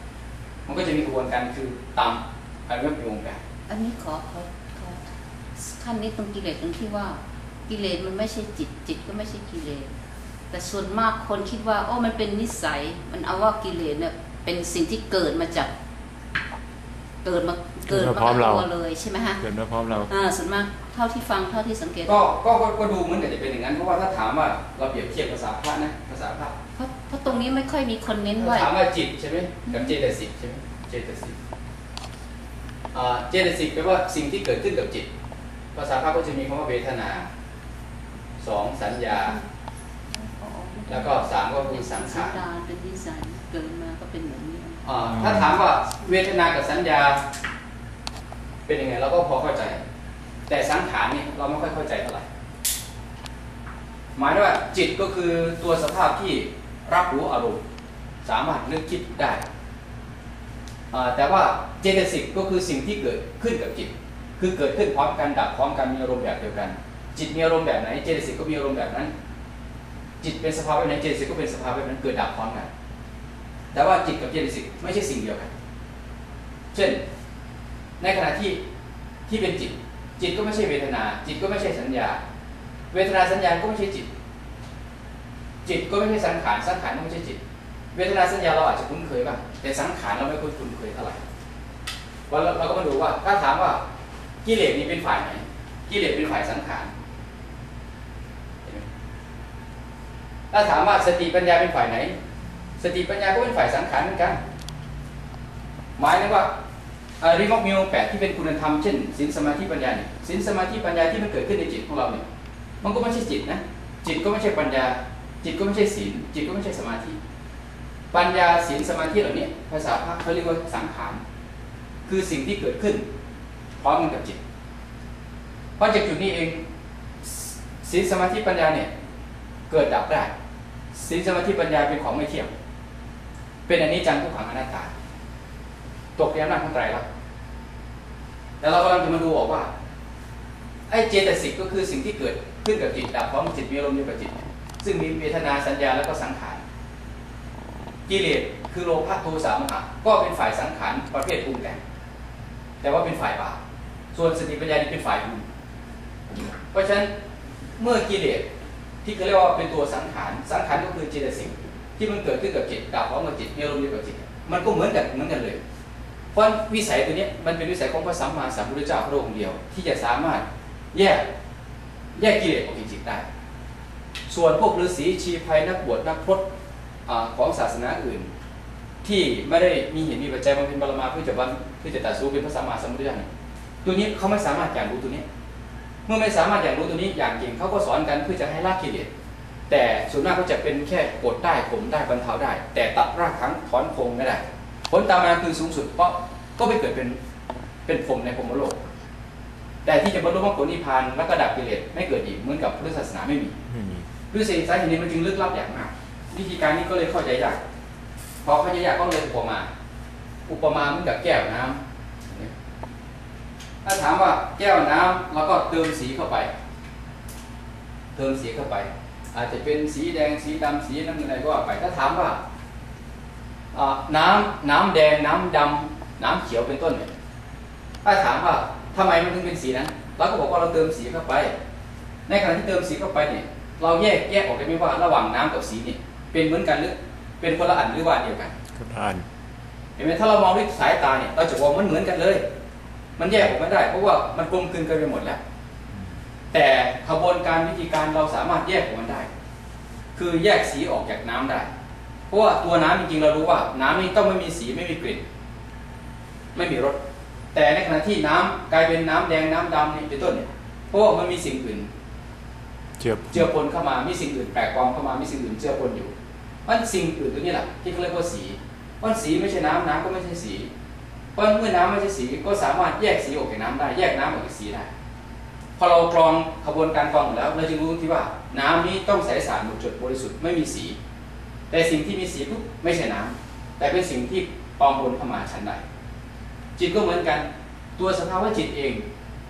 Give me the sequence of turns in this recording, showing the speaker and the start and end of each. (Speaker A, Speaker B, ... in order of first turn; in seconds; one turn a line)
Speaker A: 0.7-3.4
Speaker B: 3.7-5.0
Speaker B: 5.6-9.9
Speaker B: 10.5-15.7
Speaker B: 17.2-19.4
Speaker C: 17.9-18.7
Speaker C: 19.4-20.1
Speaker B: 20.1-22.2
Speaker A: 22.1-26.6
Speaker B: 26.8-28.7
Speaker A: 28.4-31.4
Speaker B: 29.7-29.9
Speaker A: 32.9-35.1
Speaker A: 35.8-37.3
Speaker A: 38.4-39.4
Speaker B: 40.1-44.8
Speaker A: 40.9-42.4
Speaker A: 44.9-47.2
Speaker C: 45.1-45.5
Speaker A: 48.7-49.8
Speaker A: 50.5-52.2
Speaker A: 54.2-57.6
Speaker A: 58.2-59.4
Speaker A: 60.9-69.1
Speaker A: 70.2-72.7
Speaker A: 73.7-75.5
Speaker A: 76.7-77.0
Speaker A: 78.0-78.6
Speaker A: 79.3-82.2
Speaker A: 82.9-84.1
Speaker A: 85.6-87.4
Speaker A: 87.9-91.2
Speaker A: 92.3-93.8
Speaker A: 94.5-96.9
Speaker A: 100.5-102.1
Speaker A: 102.8-104.4
Speaker A: 106.0-106.5
Speaker A: 107.2-112.2
Speaker A: 112.8-117.2
Speaker A: 118.1-121.2
Speaker A: 122.1-123.0
Speaker A: 123.8-124.4
Speaker A: 125.8-126.6
Speaker A: 127.2-128.9
Speaker A: 129.7-130.3
Speaker A: 130.9-132.5
Speaker A: 133.7-134.9
Speaker A: 136.2-137.1
Speaker A: 138.6-139.7
Speaker A: 140.9-146.6
Speaker A: 148.1-151.8
Speaker A: 152.8-153.6
Speaker A: 154.1-155.4
Speaker A: 156.7-157.1
Speaker A: 157.8-158.5
Speaker A: 159.0-165.6
Speaker A: 166.3-171.2
Speaker A: 172.2-173.2
Speaker A: 174.3-176.5
Speaker A: 177.1-178.3
Speaker A: 179.0-183.3
Speaker A: 183.8-185.2
Speaker A: 186.1-189.1
Speaker A: 189.7-197.2
Speaker A: 197.9-198.8
Speaker A: 199.8-203.6
Speaker C: 203.7-204.1
Speaker A: 204.3-207.6
Speaker A: 208.4-209.7
Speaker A: 210.5-212.5
Speaker A: 213.8-216.5
Speaker A: 218.1-222.4
Speaker A: 223.7-227.1
Speaker A: 228.0-231.5
Speaker A: 232.3-238.6
Speaker C: 238.7-239.3
Speaker A: 240.0-242.4
Speaker A: 243.2-245.4
Speaker A: 246.5-249.3
Speaker A: 250.2-251.7
Speaker A: 252.3-255.2
Speaker A: 256.6-257.0
Speaker A: 257.5-261.9
Speaker C: 263.0-263.5
Speaker A: 263.3-266.1
Speaker A: 266.7-270.7
Speaker A: 271.4-274.9
Speaker A: 275.8-281.0
Speaker A: 281.7-285.8
Speaker A: 286.8-287.5
Speaker A: 288.0-289.0